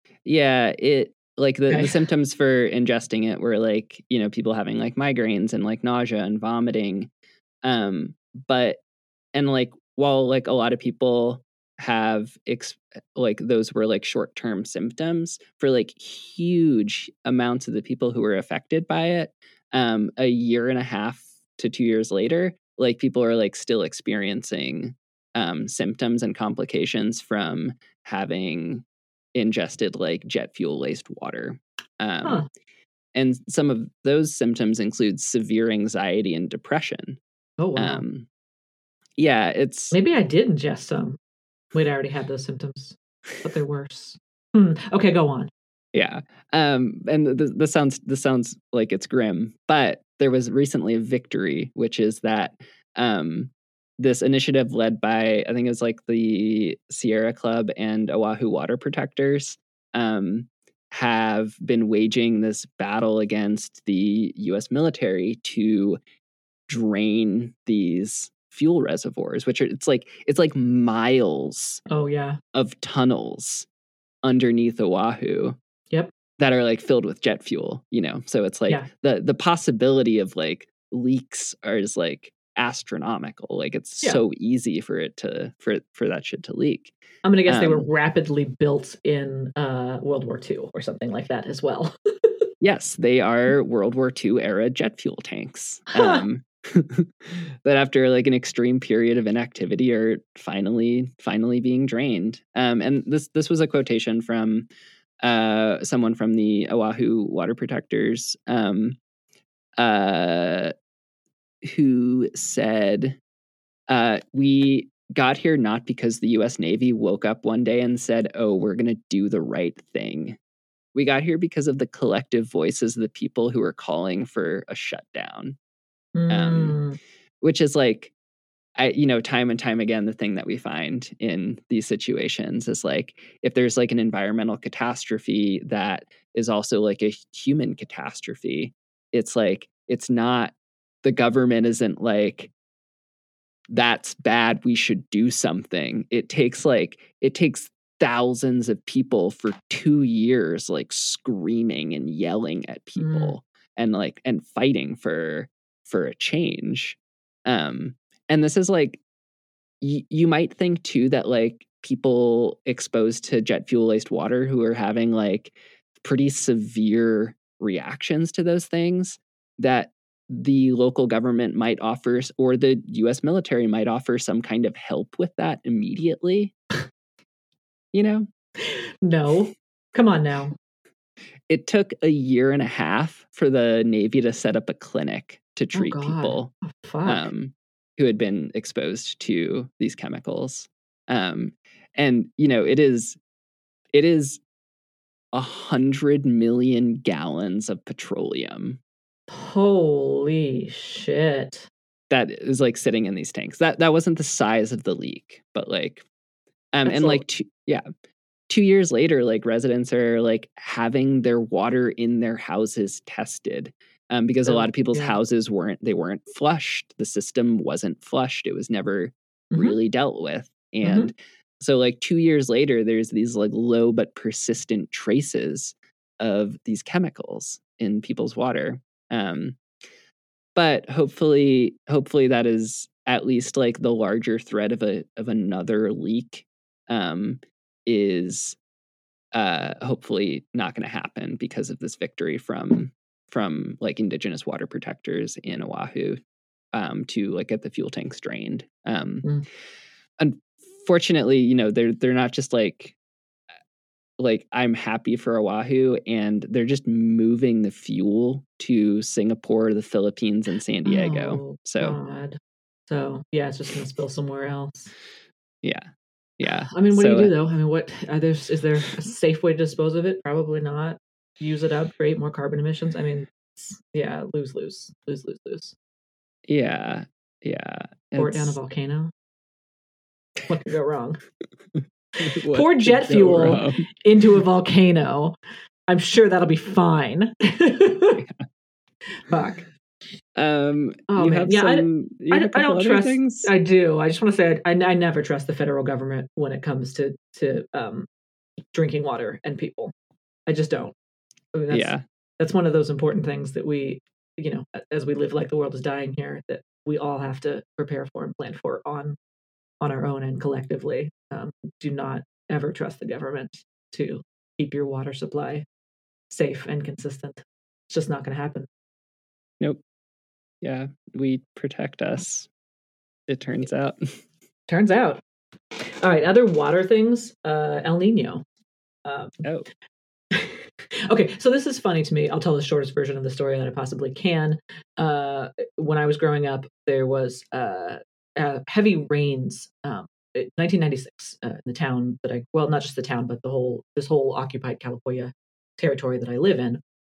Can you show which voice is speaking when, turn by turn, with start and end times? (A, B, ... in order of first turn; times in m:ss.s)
0:00.2-0:07.1 A
0:01.7-0:01.9 B
0:07.6-0:08.8 A
0:09.3-0:28.8 A
0:29.3-0:32.4 A
0:33.1-0:37.2 A
0:37.6-0:38.0 B
0:37.8-0:38.3 A
0:39.2-0:40.0 A
0:39.9-0:41.2 B
0:41.7-0:45.5 B
0:45.9-1:06.0 A
1:06.7-1:11.8 A
1:11.9-1:12.4 B
1:12.5-1:13.7 A
1:14.2-1:15.6 A
1:16.4-1:26.9 A
1:27.2-1:32.4 B
1:27.5-1:27.9 A
1:32.6-1:44.7 A
1:35.9-1:36.2 B
1:45.2-1:49.0 A
1:49.8-1:50.7 A
1:51.6-1:53.2 A
1:53.9-2:00.4 A
2:00.9-2:05.6 A
2:06.1-2:07.0 B
2:06.3-2:06.8 A
2:07.4-2:08.1 A
2:08.8-2:22.5 A
2:23.7-2:39.0 A
2:33.0-2:33.4 B
2:39.8-2:56.5 A
2:57.9-2:58.3 A
2:58.6-3:00.5 B
3:01.5-3:06.5 A
3:05.7-3:07.3 B
3:07.0-3:13.2 A
3:13.9-3:14.4 A
3:15.3-3:18.8 A
3:19.3-3:21.7 B
3:22.1-3:26.0 A
3:26.7-3:27.8 A
3:26.8-3:27.2 B
3:28.5-3:49.6 A
3:34.4-3:35.2 B
3:39.5-3:39.8 B
3:40.8-3:41.1 B
3:50.5-3:58.6 A
3:59.3-4:06.2 A
4:06.7-4:09.3 A
4:10.2-4:12.9 A
4:14.2-4:22.0 A
4:20.8-4:24.9 B
4:25.6-4:27.3 A
4:26.7-4:35.7 B
4:36.5-4:38.6 A
4:38.2-4:39.1 B
4:40.5-4:41.2 B
4:41.7-4:43.9 A
4:42.5-4:45.4 B
4:45.9-4:48.2 B
4:49.3-4:49.6 B
4:50.3-4:53.5 A
4:51.1-4:58.1 B
4:58.7-4:59.9 B
5:00.5-5:00.9 B
5:01.5-5:09.2 B
5:01.7-5:02.0 A
5:09.8-5:15.6 B
5:16.3-5:18.7 B
5:20.6-5:22.5 A
5:23.3-5:24.2 A
5:24.7-5:25.2 B
5:25.8-5:28.4 B
5:29.0-5:29.4 B
5:29.4-5:29.7 A
5:30.3-5:46.8 B